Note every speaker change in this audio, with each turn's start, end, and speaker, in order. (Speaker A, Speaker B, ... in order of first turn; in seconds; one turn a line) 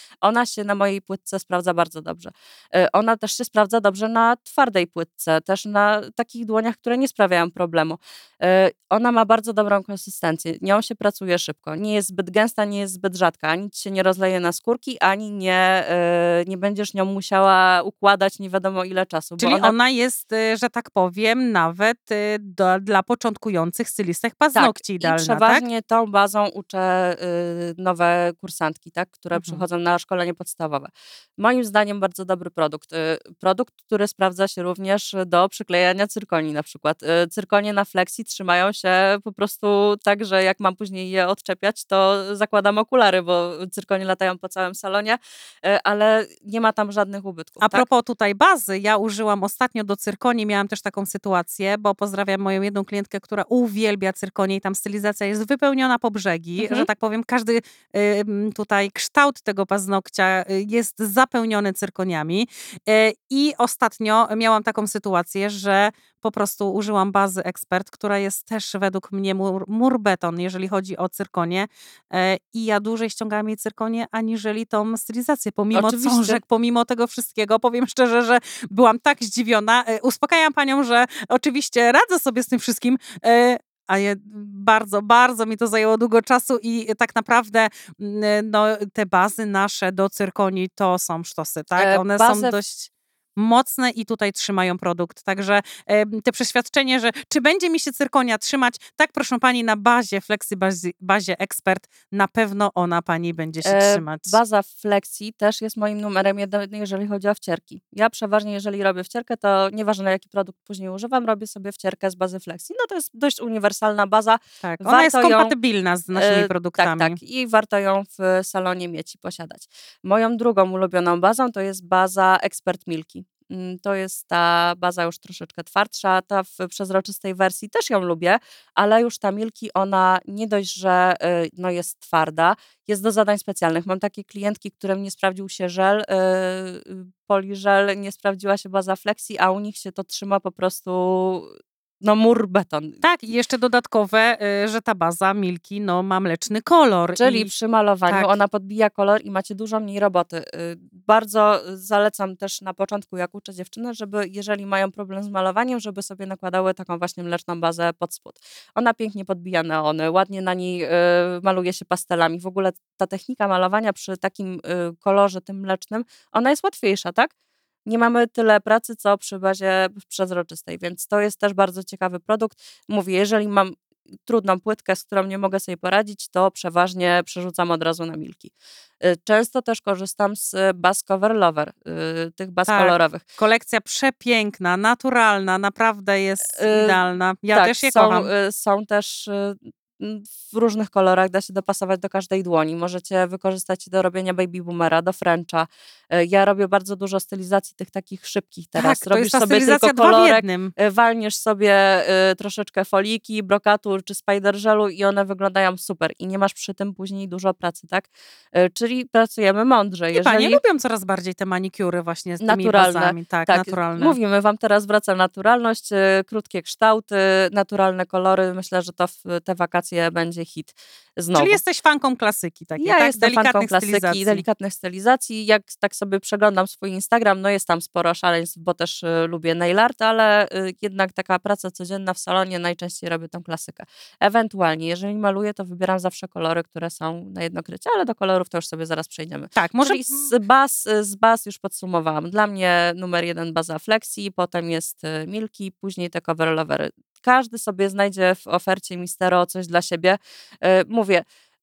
Speaker A: 0.2-19.7
Speaker B: 19.4-25.6
Speaker A: 24.5-47.9
Speaker B: 29.3-29.6
Speaker B: 47.6-104.4
Speaker A: 56.6-56.9
Speaker A: 75.7-76.4
Speaker A: 91.7-92.5
Speaker A: 103.6-115.5
Speaker B: 114.6-117.2
Speaker A: 116.1-143.0
Speaker B: 143.0-147.5
Speaker A: 147.2-167.3
Speaker B: 148.1-148.3
Speaker A: 167.8-183.2
Speaker B: 182.7-188.3
Speaker A: 186.5-187.0
Speaker A: 187.5-210.6
Speaker B: 198.8-200.7
Speaker B: 210.1-214.2
Speaker A: 212.4-221.6
Speaker B: 221.3-224.4
Speaker A: 222.8-251.2
Speaker B: 239.6-240.3